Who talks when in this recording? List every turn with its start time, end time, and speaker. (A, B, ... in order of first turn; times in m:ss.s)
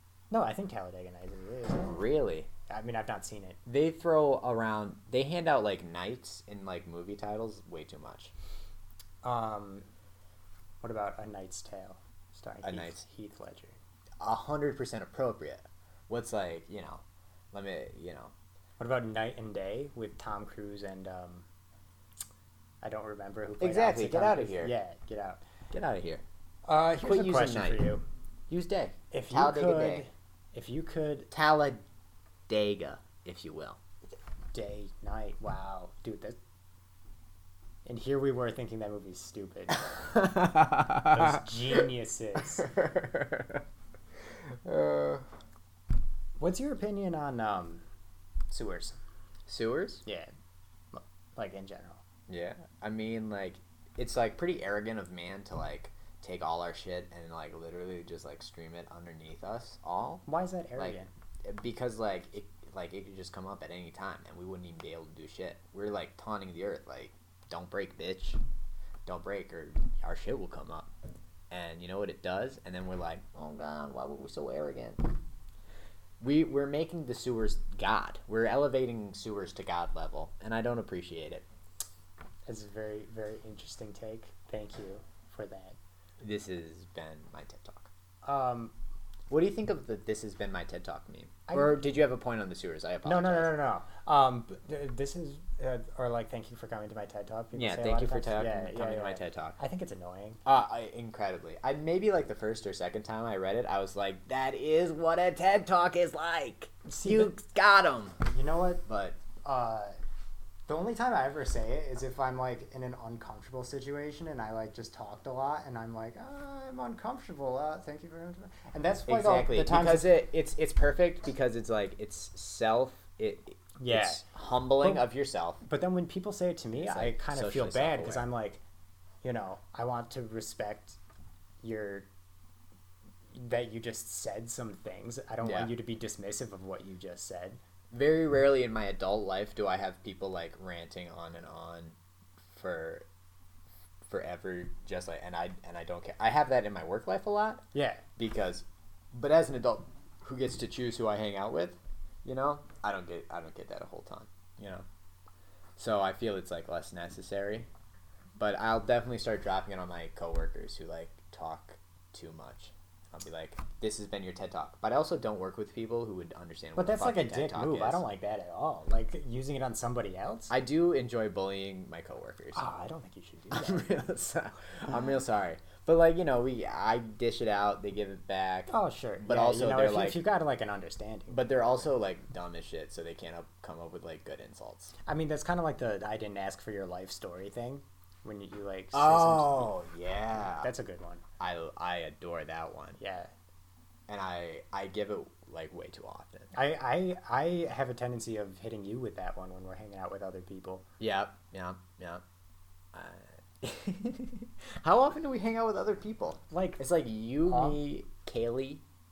0:00.3-0:02.0 A
0:01.8-0:02.5 B
0:02.7-0:03.6 A
0:03.6-0:08.3 B
0:09.2-0:09.9 A
0:10.8-0:13.8 A
0:12.6-0:13.0 B
0:14.2-0:18.3 B
0:18.8-0:21.5 A
0:22.8-0:25.4 A
0:23.6-0:24.7 B
0:25.7-0:26.2 B
0:26.6-0:28.0 A
0:27.0-0:27.9 B
0:28.5-0:30.1 B
0:29.1-0:31.3 A
0:31.3-0:31.8 B
0:32.5-0:33.8 B
0:34.5-0:36.4 A
0:37.8-0:39.9 A
0:39.9-0:41.4 B
0:41.0-0:42.7 A
0:42.5-0:43.6 B
0:44.5-0:45.3 B
0:46.4-0:47.8 A
0:48.5-0:49.0 A
0:49.5-0:50.0 B
0:50.1-0:50.3 A
0:50.9-0:52.0 A
0:52.3-1:00.2 B
1:00.3-1:01.1 A
1:00.8-1:08.4 B
1:09.1-1:10.9 B
1:11.5-1:15.0 B
1:16.2-1:21.4 B
1:22.4-1:25.8 A
1:26.2-1:27.9 B
1:28.2-1:28.8 A
1:29.3-1:33.5 B
1:31.5-1:31.9 A
1:33.0-1:40.4 A
1:37.5-1:39.6 B
1:40.4-1:48.2 B
1:46.9-1:47.3 A
1:48.3-1:48.8 A
1:48.9-1:49.2 B
1:49.4-1:50.0 A
1:50.7-2:00.1 A
1:59.1-2:05.6 B
2:03.8-2:04.2 A
2:04.8-2:05.1 A
2:05.6-2:08.6 A
2:06.8-2:08.3 B
2:09.2-2:11.0 A
2:11.6-2:12.1 A
2:13.3-2:17.6 A
2:15.4-2:15.7 B
2:17.9-2:22.0 B
2:22.5-2:23.1 B
2:24.0-2:34.9 B
2:27.7-2:28.0 A
2:35.8-2:37.7 B
2:38.4-2:48.0 B
2:46.8-2:50.5 A
2:50.5-2:52.6 B
2:52.6-2:53.9 A
2:53.5-3:00.2 B
2:58.7-3:01.5 A
3:01.3-3:04.9 B
3:05.1-3:09.7 A
3:08.9-3:10.7 B
3:10.5-3:11.2 A
3:11.4-3:13.0 B
3:13.0-3:13.3 A
3:14.1-3:16.5 B
3:16.5-3:20.8 A
3:21.0-3:22.2 B
3:22.9-3:28.8 B
3:26.5-3:26.8 A
3:27.4-3:27.8 A